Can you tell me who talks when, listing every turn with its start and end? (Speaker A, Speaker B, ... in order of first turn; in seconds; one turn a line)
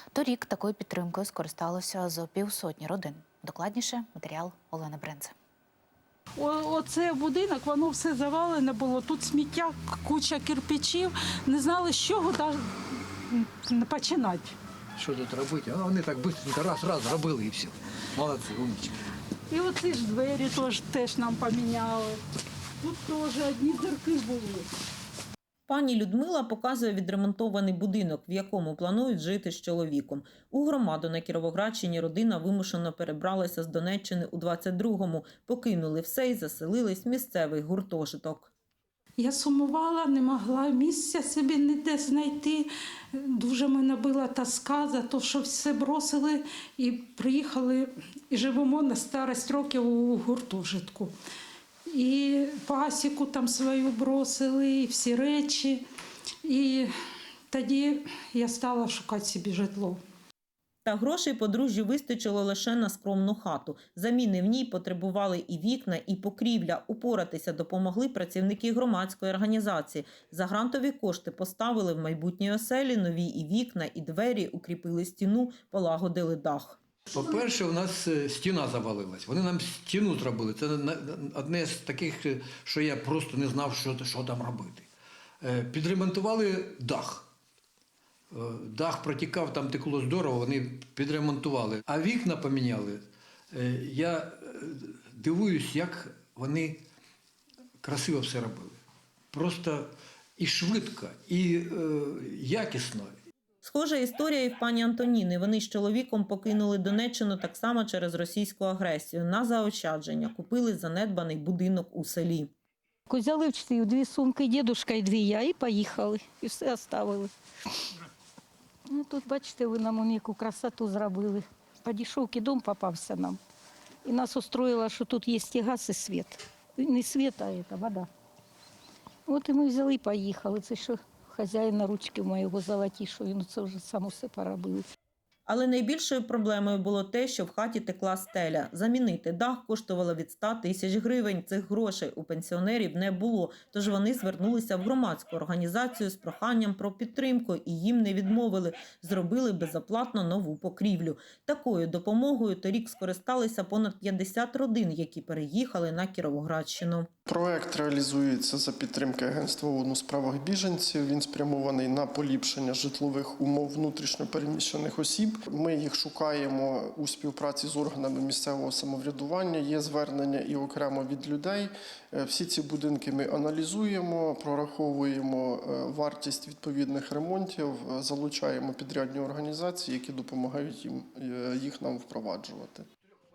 Speaker A: 0.1-5.3
Speaker B: 6.4-12.6
Speaker B: 13.3-14.6
Speaker C: 15.0-19.0
Speaker B: 19.5-22.2
Speaker B: 22.8-24.7
Speaker D: 25.7-38.5
Speaker B: 39.2-51.1
Speaker B: 51.9-55.8
Speaker B: 56.5-56.9
Speaker B: 57.5-60.0
Speaker D: 60.9-76.8
Speaker C: 77.1-84.9
Speaker C: 85.4-87.3
Speaker C: 88.3-96.8
Speaker C: 97.8-98.8
Speaker C: 99.3-103.2
Speaker D: 103.6-112.5
Speaker E: 113.1-117.3
Speaker E: 118.9-123.4
Speaker E: 124.0-128.1
Speaker E: 129.3-134.8
Speaker D: 135.5-157.1
Speaker F: 157.3-182.8